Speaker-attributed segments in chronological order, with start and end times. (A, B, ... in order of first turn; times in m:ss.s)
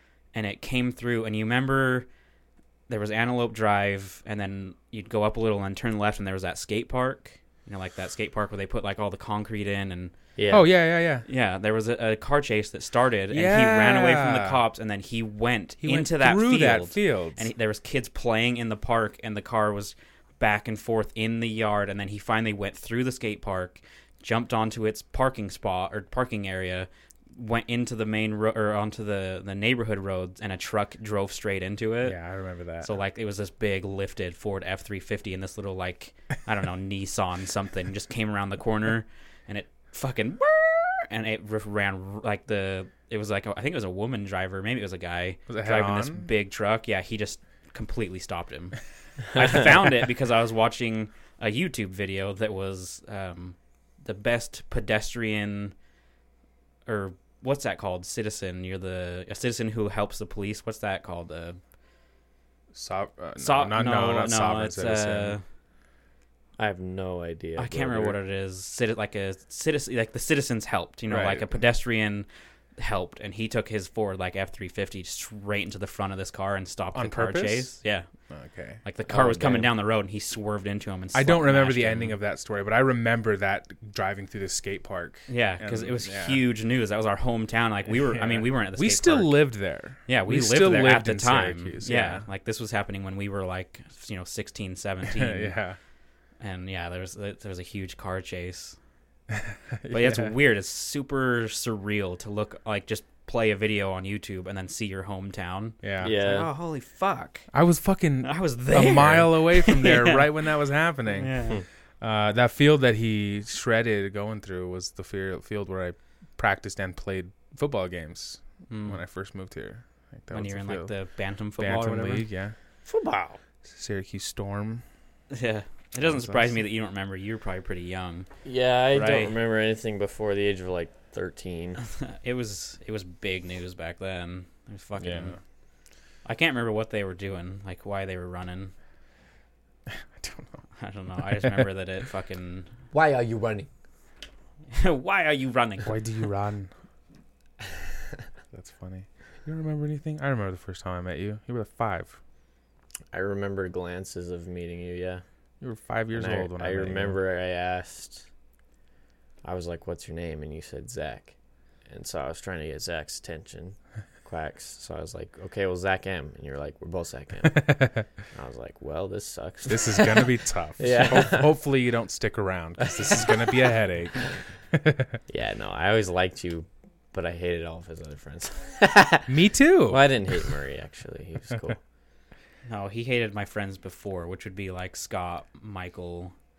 0:00.3-0:02.1 A
0:02.9-0:10.1 A
0:10.4-0:10.7 B
0:10.5-0:11.2 C
0:11.3-0:32.2 A
0:13.3-0:14.6 C
0:15.8-0:17.4 C
0:32.0-0:32.9 C
0:32.8-0:55.7 A
0:45.5-0:46.3 C
0:56.9-1:01.6 A
1:02.7-1:05.4 C
1:03.4-1:05.4 A
1:06.6-1:08.2 B
1:07.6-1:18.1 A
1:11.1-1:11.5 C
1:16.9-1:17.7 C
1:18.3-1:18.8 C
1:18.8-1:22.2 A
1:19.1-1:19.7 B
1:21.1-1:26.4 C
1:25.3-1:29.4 A
1:28.0-1:32.2 C
1:30.1-1:35.6 A
1:35.1-1:35.8 C
1:36.4-1:38.8 A
1:39.3-1:40.3 C
1:39.9-1:47.5 A
1:45.8-1:46.1 C
1:46.0-1:46.5 B
1:47.5-1:51.3 C
1:48.2-1:50.4 A
1:51.1-1:51.6 A
1:52.0-2:00.9 C
1:58.7-1:59.0 A
2:00.3-2:02.2 A
2:01.6-2:02.6 C
2:02.8-2:03.4 B
2:03.6-2:04.8 C
2:05.3-2:08.3 A
2:06.0-2:06.6 C
2:08.4-2:11.8 B
2:08.9-2:09.4 A
2:11.8-2:15.4 A
2:15.0-2:15.4 C
2:16.2-2:18.7 A
2:20.2-2:20.6 C
2:20.8-2:22.7 A
2:21.2-2:21.7 C
2:22.9-2:23.7 B
2:24.7-2:26.0 A
2:25.9-2:26.7 C
2:28.5-2:32.2 C
2:33.1-2:35.2 B
2:35.6-2:37.2 C
2:36.1-2:38.3 B
2:39.4-2:51.5 B
2:47.6-2:48.0 C
2:49.7-2:55.2 C
2:52.8-2:53.6 B
2:55.3-2:59.3 B
2:59.3-3:00.1 C
2:59.9-3:01.8 B
3:02.6-3:06.3 A